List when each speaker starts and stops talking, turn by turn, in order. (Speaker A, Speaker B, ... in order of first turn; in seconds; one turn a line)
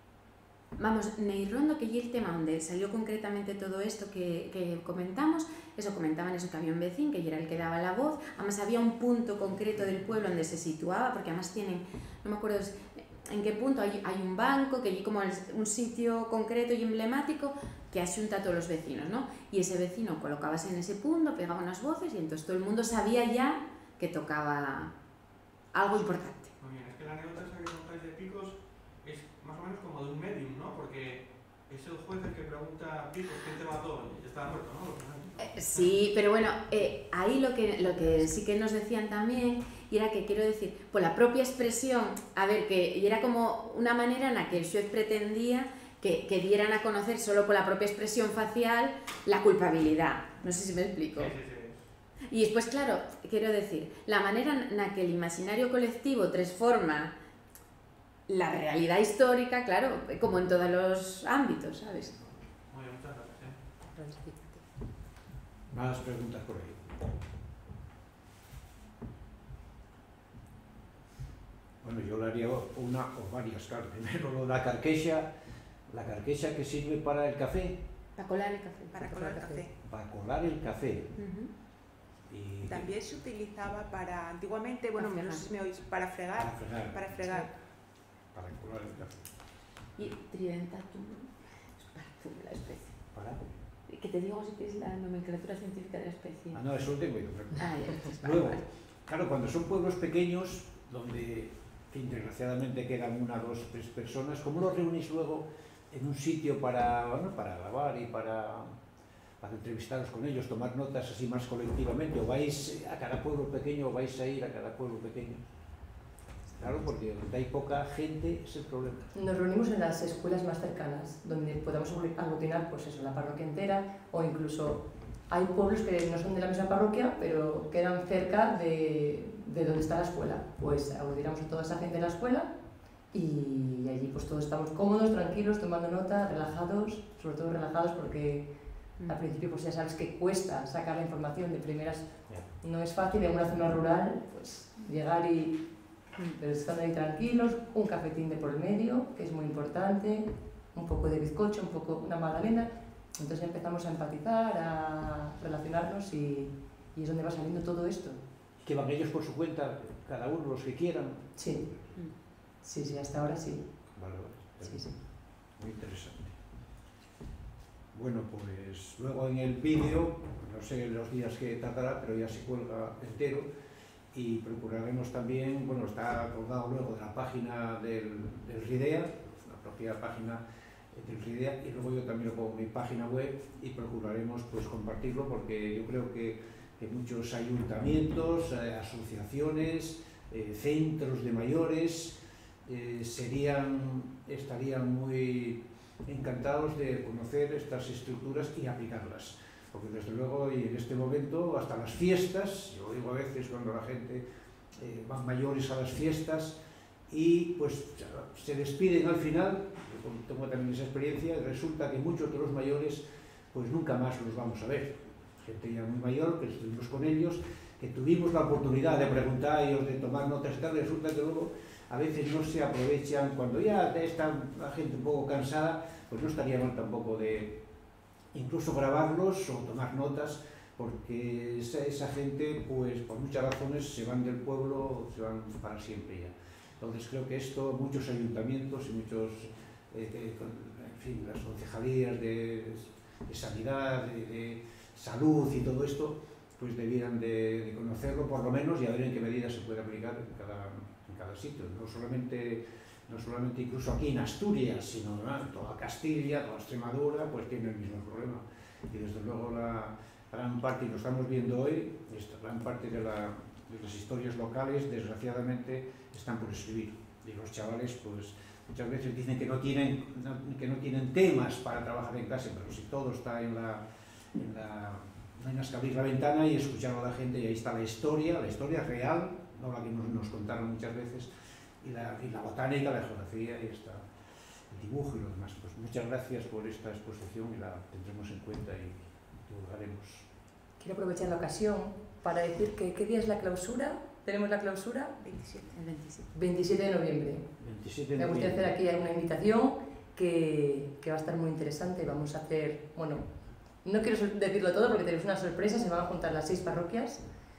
Speaker A: 0.8-24.9
Speaker A: 25.7-26.5
Speaker B: 26.6-35.9
Speaker A: 35.4-51.3
Speaker B: 51.1-51.9
Speaker A: 52.3-57.1
Speaker A: 58.3-62.1
Speaker B: 62.1-63.6
Speaker C: 63.9-64.6
Speaker D: 65.7-67.0
Speaker D: 71.8-75.3
Speaker D: 75.9-77.8
Speaker A: 78.2-79.6
Speaker E: 78.9-79.7
Speaker D: 79.9-81.1
Speaker A: 81.2-81.5
Speaker D: 82.3-82.9
Speaker E: 82.6-87.5
Speaker A: 85.0-85.5
Speaker D: 86.3-87.4
Speaker D: 88.3-89.3
Speaker A: 90.0-93.0
Speaker D: 93.1-93.4
Speaker A: 93.9-96.6
Speaker D: 96.5-108.8
Speaker A: 97.6-98.6
Speaker D: 109.4-115.4
Speaker D: 116.6-119.1
Speaker C: 119.1-132.5
Speaker C: 133.1-138.5
Speaker C: 139.1-145.6
Speaker C: 146.3-158.2
Speaker D: 158.6-161.8
Speaker C: 161.4-161.7
Speaker C: 162.6-163.7
Speaker D: 163.9-164.9
Speaker C: 164.6-165.0
Speaker D: 165.5-166.3
Speaker D: 167.9-173.5
Speaker D: 174.1-180.4
Speaker D: 180.9-204.2
Speaker D: 204.8-206.6
Speaker D: 207.1-227.6
Speaker D: 228.3-273.8
Speaker D: 274.3-281.3
Speaker D: 281.8-284.1
Speaker D: 284.7-290.3
Speaker C: 290.8-295.2
Speaker E: 295.2-295.7
Speaker A: 295.7-296.3
Speaker C: 296.3-297.5
Speaker D: 297.6-298.8
Speaker C: 298.2-307.2